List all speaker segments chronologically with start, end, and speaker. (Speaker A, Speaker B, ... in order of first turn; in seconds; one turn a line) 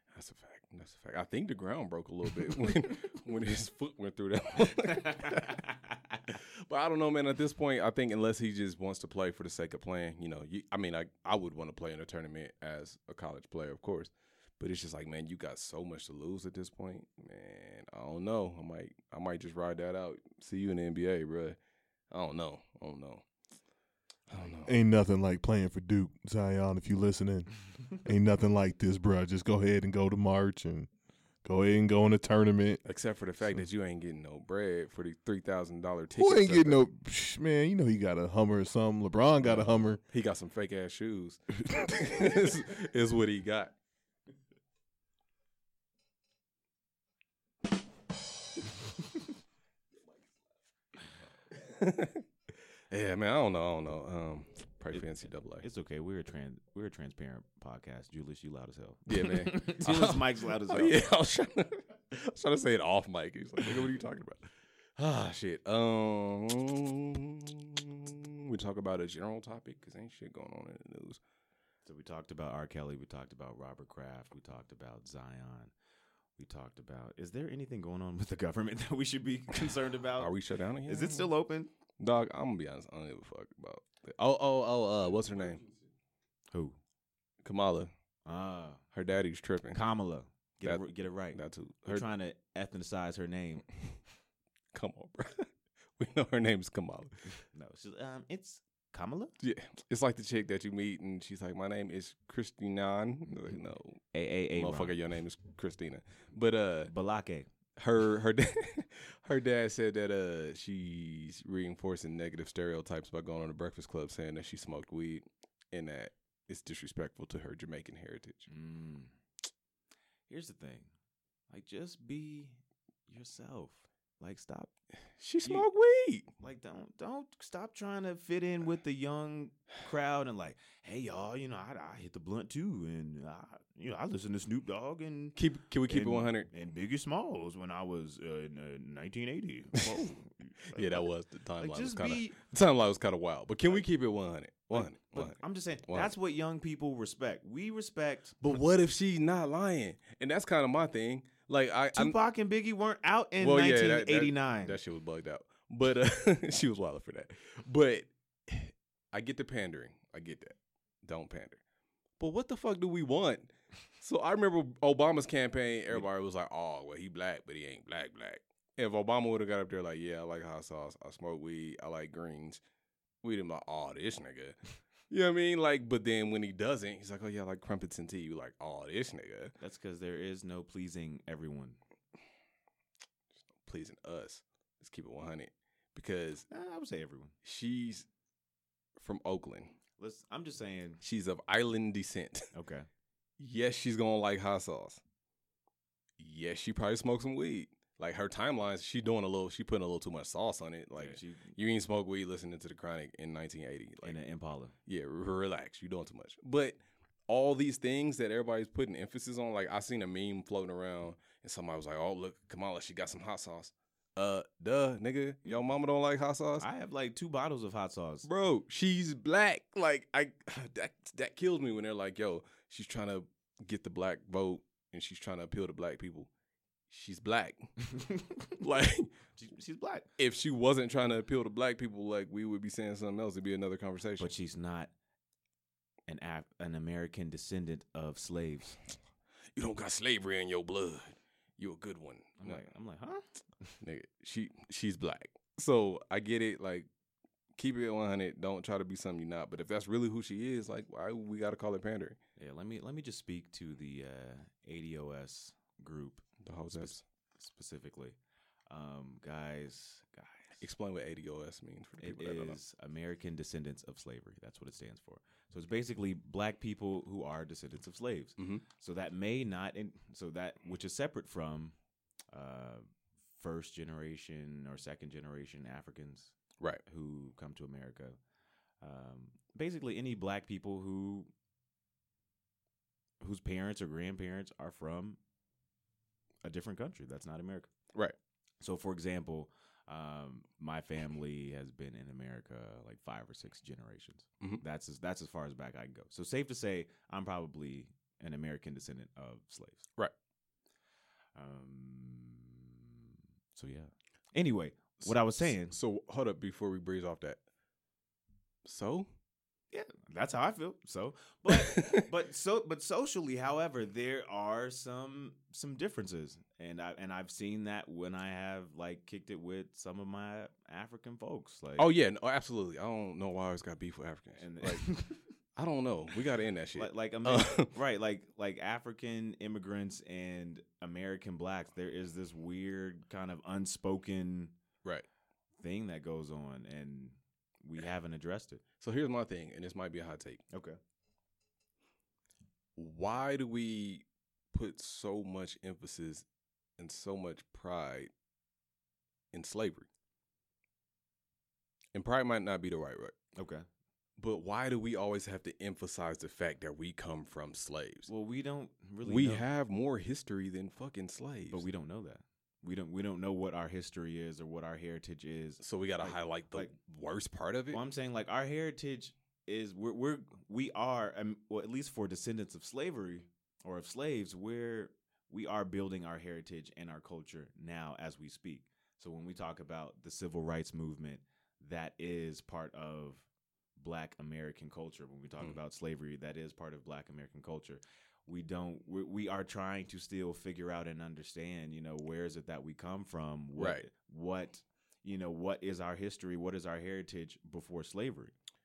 Speaker A: 0.1-5.6
Speaker B: 4.8-6.1
Speaker A: 6.3-21.6
Speaker A: 22.1-23.2
Speaker A: 24.3-24.7
Speaker C: 24.6-30.9
Speaker C: 31.4-32.8
Speaker A: 32.8-36.9
Speaker C: 36.1-40.0
Speaker A: 39.4-43.7
Speaker A: 51.5-52.2
Speaker A: 52.9-55.6
Speaker B: 54.9-61.0
Speaker A: 59.1-71.2
Speaker B: 71.8-75.7
Speaker B: 76.4-80.3
Speaker A: 80.2-81.3
Speaker B: 80.8-81.7
Speaker A: 82.0-85.6
Speaker B: 86.5-86.8
Speaker A: 87.4-87.9
Speaker B: 88.2-88.8
Speaker A: 88.9-89.8
Speaker B: 89.7-93.7
Speaker A: 90.6-92.1
Speaker A: 94.7-97.2
Speaker B: 97.5-99.3
Speaker A: 99.4-104.0
Speaker B: 104.1-105.0
Speaker A: 104.5-106.9
Speaker B: 106.9-107.5
Speaker A: 107.8-118.5
Speaker B: 118.5-119.1
Speaker B: 120.3-120.9
Speaker B: 121.5-124.7
Speaker A: 125.2-126.3
Speaker B: 126.4-135.4
Speaker A: 135.3-136.5
Speaker B: 135.9-141.1
Speaker A: 140.7-146.1
Speaker B: 141.6-142.4
Speaker B: 144.7-148.4
Speaker A: 148.4-152.2
Speaker B: 151.9-154.8
Speaker A: 153.4-161.6
Speaker A: 162.2-172.6
Speaker A: 173.2-179.5
Speaker B: 179.6-181.8
Speaker A: 183.6-186.5
Speaker B: 186.5-187.3
Speaker A: 187.4-188.1
Speaker A: 189.0-189.8
Speaker B: 190.0-191.0
Speaker A: 191.0-192.5
Speaker B: 192.5-192.9
Speaker A: 193.4-195.0
Speaker A: 196.2-204.2
Speaker B: 200.9-201.5
Speaker B: 204.0-204.7
Speaker A: 204.9-216.7
Speaker B: 216.6-218.3
Speaker A: 218.2-226.3
Speaker A: 226.9-227.7
Speaker B: 227.9-228.3
Speaker A: 228.6-229.1
Speaker B: 229.4-230.1
Speaker A: 230.2-234.3
Speaker B: 234.2-234.9
Speaker B: 236.1-238.8
Speaker A: 239.5-242.6
Speaker B: 242.4-243.8
Speaker A: 243.8-246.9
Speaker A: 247.6-252.2
Speaker B: 252.4-258.2
Speaker A: 256.4-257.0
Speaker B: 258.7-260.6
Speaker A: 260.6-262.6
Speaker B: 262.0-271.7
Speaker A: 268.4-268.6
Speaker B: 272.3-276.3
Speaker B: 276.9-278.2
Speaker B: 278.8-281.3
Speaker B: 283.2-285.2
Speaker B: 286.4-287.7
Speaker B: 288.6-299.8
Speaker B: 301.3-305.7
Speaker A: 305.0-307.4
Speaker A: 308.6-309.1
Speaker B: 309.7-321.9
Speaker A: 311.5-312.0
Speaker A: 321.8-324.9
Speaker B: 324.4-325.3
Speaker A: 325.5-327.7
Speaker B: 326.8-334.5
Speaker B: 335.6-338.6
Speaker A: 338.8-340.4
Speaker B: 340.5-340.8
Speaker A: 342.8-346.2
Speaker A: 346.8-348.1
Speaker A: 349.3-349.9
Speaker A: 351.9-353.1
Speaker B: 353.4-353.6
Speaker A: 354.2-358.1
Speaker B: 358.1-359.4
Speaker A: 359.0-361.6
Speaker B: 361.5-366.7
Speaker A: 365.6-367.8
Speaker B: 367.7-398.3
Speaker A: 393.6-393.8